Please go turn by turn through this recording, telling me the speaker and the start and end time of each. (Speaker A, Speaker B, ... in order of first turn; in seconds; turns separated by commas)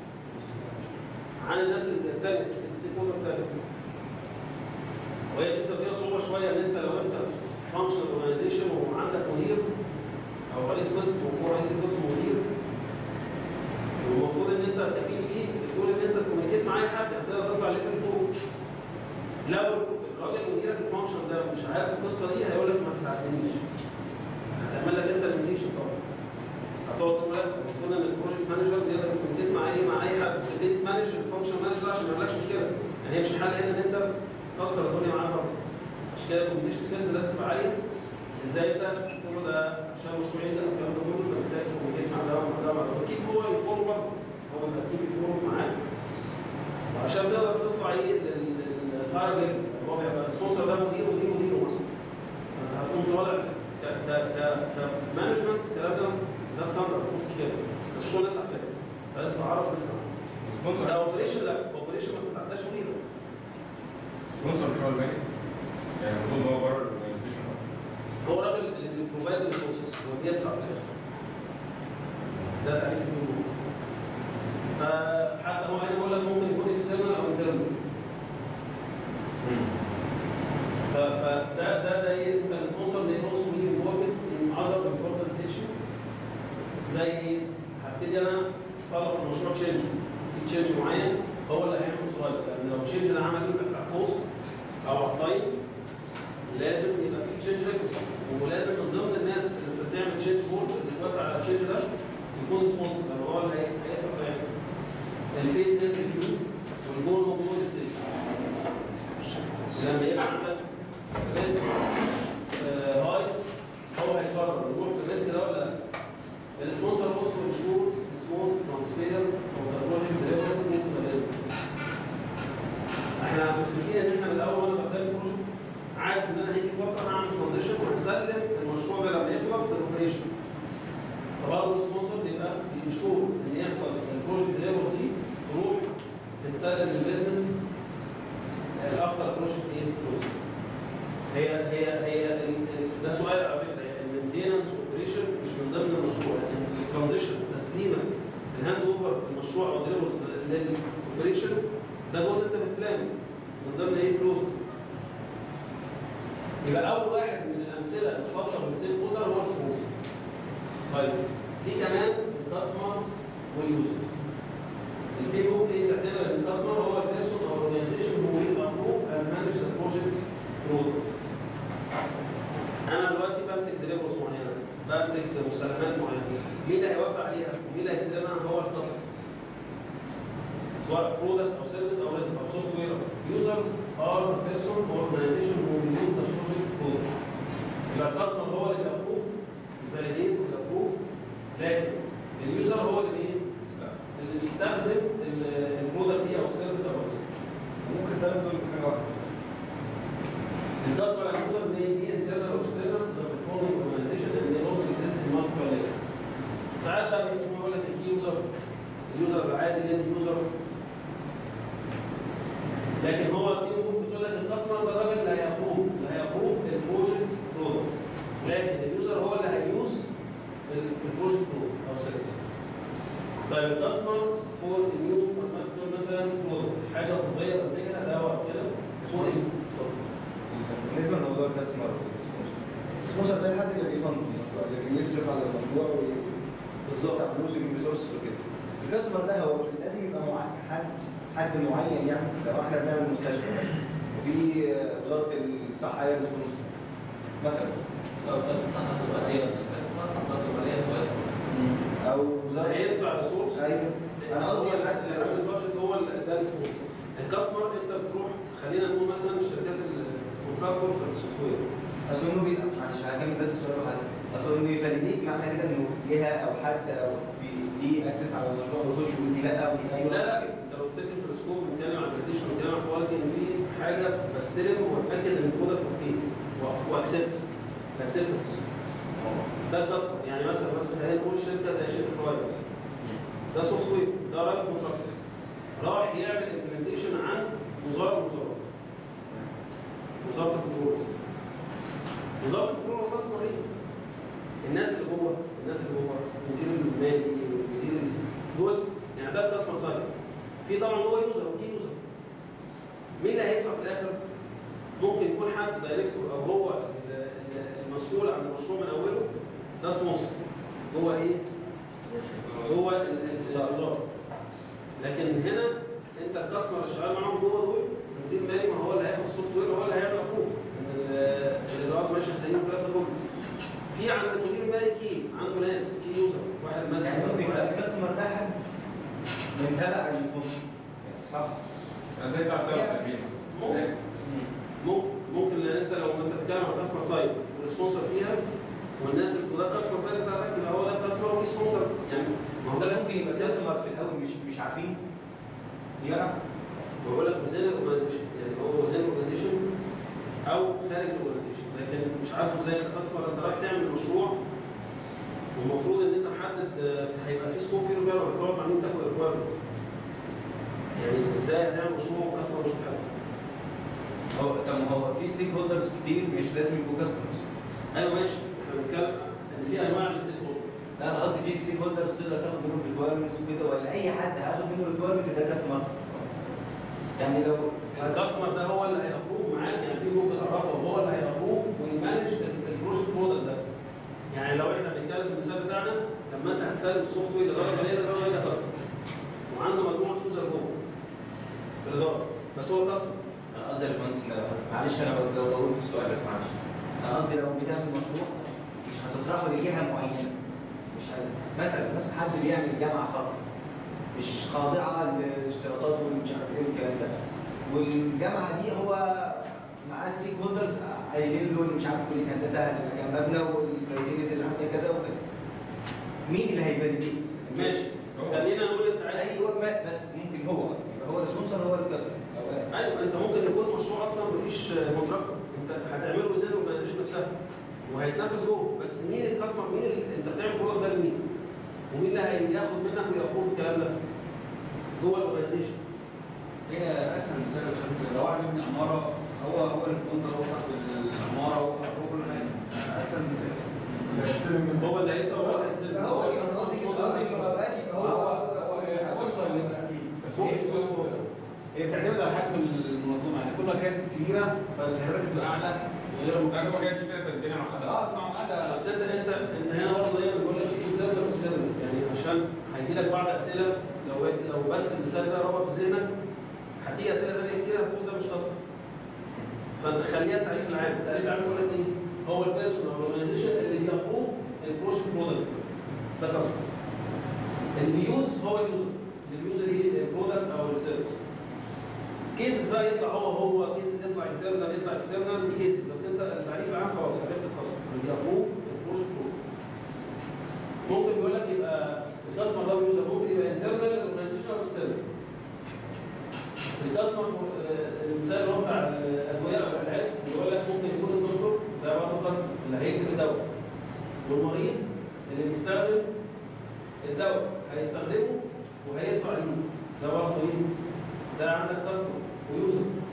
Speaker A: 0.3-0.9, Speaker A: 1.4-3.6, Speaker A: 5.3-9.7, Speaker A: 10.5-12.4, Speaker A: 14.0-18.3, Speaker A: 19.5-23.6, Speaker A: 24.6-26.0, Speaker A: 26.9-35.6, Speaker A: 36.1-37.8, Speaker A: 38.4-45.7, Speaker A: 46.9-51.9, Speaker A: 52.6-60.1, Speaker B: 60.5-61.4, Speaker A: 60.8-63.0, Speaker B: 64.4-65.2, Speaker B: 66.0-67.6, Speaker A: 68.2-70.9, Speaker A: 72.6-73.5, Speaker A: 74.8-77.8, Speaker B: 79.4-79.7, Speaker A: 80.9-85.7, Speaker A: 86.9-94.2, Speaker A: 94.8-95.5, Speaker A: 96.5-104.5, Speaker A: 105.3-108.0, Speaker A: 109.7-110.6, Speaker A: 111.2-111.8, Speaker A: 112.5-113.4, Speaker A: 113.9-115.8, Speaker A: 116.6-121.5, Speaker A: 123.2-125.4, Speaker A: 126.0-130.2, Speaker A: 131.4-135.9, Speaker A: 136.4-137.5, Speaker A: 138.8-140.4, Speaker A: 141.3-154.6, Speaker A: 156.6-159.9, Speaker A: 160.9-164.1, Speaker A: 165.1-171.2, Speaker A: 172.9-179.1, Speaker A: 180.8-187.1, Speaker A: 187.9-191.0, Speaker A: 191.5-193.4, Speaker B: 193.7-193.9, Speaker A: 194.2-197.2, Speaker C: 197.8-199.2, Speaker A: 200.8-206.0, Speaker A: 206.8-208.5, Speaker A: 209.1-210.5, Speaker A: 213.0-217.9, Speaker A: 218.4-220.1, Speaker A: 220.7-222.4, Speaker A: 223.5-229.9, Speaker C: 229.1-229.4, Speaker C: 230.5-236.4, Speaker A: 236.9-237.2, Speaker C: 237.0-246.7, Speaker C: 247.4-247.8, Speaker D: 248.2-251.3, Speaker C: 251.5-253.0, Speaker A: 252.6-253.7, Speaker C: 253.5-255.4, Speaker A: 254.2-261.6, Speaker C: 262.1-270.5, Speaker A: 270.0-277.4, Speaker A: 277.9-278.6, Speaker C: 279.2-279.4, Speaker A: 279.7-282.6, Speaker A: 283.5-285.1, Speaker A: 285.8-288.7, Speaker A: 290.2-291.2, Speaker A: 292.4-293.6, Speaker A: 294.6-300.1, Speaker A: 300.6-302.0, Speaker A: 303.2-304.2, Speaker A: 305.0-309.3, Speaker A: 309.8-311.4, Speaker A: 312.6-314.1, Speaker C: 313.4-313.8, Speaker A: 315.0-323.1, Speaker A: 323.9-327.8, Speaker C: 327.0-328.6, Speaker C: 329.5-331.6, Speaker B: 332.2-333.9, Speaker C: 332.7-333.1, Speaker A: 333.5-333.8, Speaker C: 334.2-334.5, Speaker A: 334.8-338.4, Speaker A: 339.0-343.6, Speaker C: 342.7-345.0, Speaker C: 346.0-346.4, Speaker A: 347.0-349.6, Speaker A: 350.5-354.4, Speaker A: 355.6-359.5, Speaker A: 361.0-363.1, Speaker C: 364.3-367.4, Speaker A: 367.9-370.7, Speaker C: 371.0-376.5, Speaker C: 377.1-378.4, Speaker A: 378.0-383.6, Speaker A: 384.3-388.8, Speaker A: 389.5-390.8, Speaker A: 391.8-393.2, Speaker C: 393.5-400.4, Speaker C: 400.9-403.4, Speaker C: 404.1-415.2, Speaker C: 416.2-418.5, Speaker A: 417.5-419.6, Speaker C: 419.1-422.7, Speaker A: 422.7-427.3, Speaker A: 427.9-431.2, Speaker A: 431.9-433.9, Speaker A: 435.0-435.8, Speaker E: 436.7-445.0, Speaker A: 444.8-447.6, Speaker C: 445.4-449.7, Speaker E: 447.9-451.2, Speaker A: 450.4-450.9, Speaker E: 451.7-456.9, Speaker B: 456.5-458.1, Speaker E: 457.8-458.8, Speaker A: 458.6-466.1, Speaker A: 466.8-468.6, Speaker A: 469.8-475.7, Speaker A: 476.2-476.6, Speaker A: 477.8-481.2, Speaker A: 482.3-489.4, Speaker A: 490.8-495.0, Speaker A: 496.8-503.4, Speaker A: 504.2-506.1, Speaker A: 507.0-510.7, Speaker A: 511.3-512.9